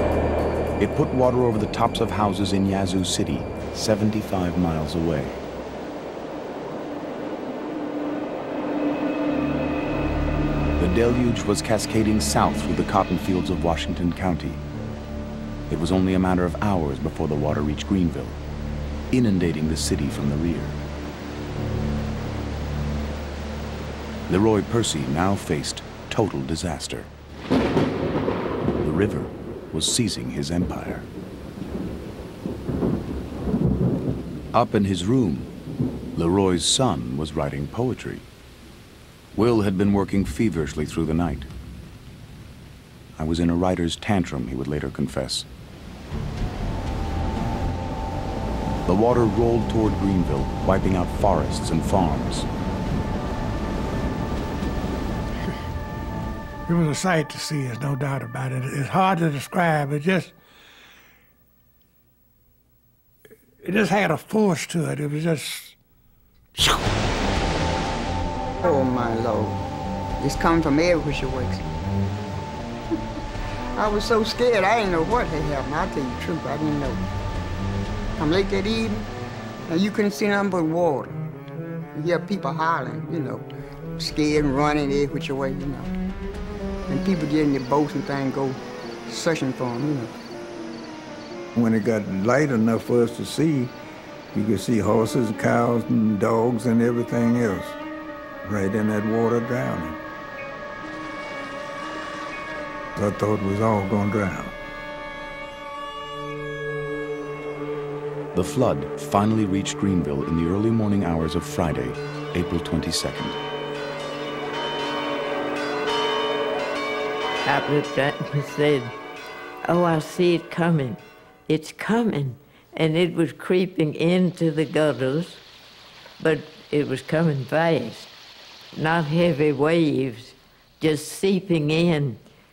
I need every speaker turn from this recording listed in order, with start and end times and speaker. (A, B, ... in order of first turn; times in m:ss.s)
0:00.8-0:05.4 A
0:10.8-0:14.6 A
0:15.7-0:18.4 A
0:19.1-0:20.8 A
0:24.3-0:27.1 A
0:28.8-0:31.1 A
0:34.5-0:35.5 A
0:36.1-0:38.3 A
0:39.3-0:41.5 A
0:43.2-0:45.5 A
0:48.8-0:52.5 A
0:56.7-1:00.3 B
1:03.6-1:05.8 B
1:08.6-1:09.6 C
1:10.2-1:11.6 C
1:13.8-1:17.0 C
1:18.2-1:19.1 C
1:19.7-1:21.2 C
1:21.9-1:23.4 C
1:24.0-1:25.9 C
1:26.9-1:30.1 C
1:31.5-1:33.7 D
1:34.3-1:37.8 D
1:38.4-1:40.0 D
1:43.0-1:44.5 D
1:48.3-1:53.4 A
1:57.4-1:58.9 E
1:59.6-2:05.4 E
2:06.2-2:08.1 E
2:08.7-2:12.2 E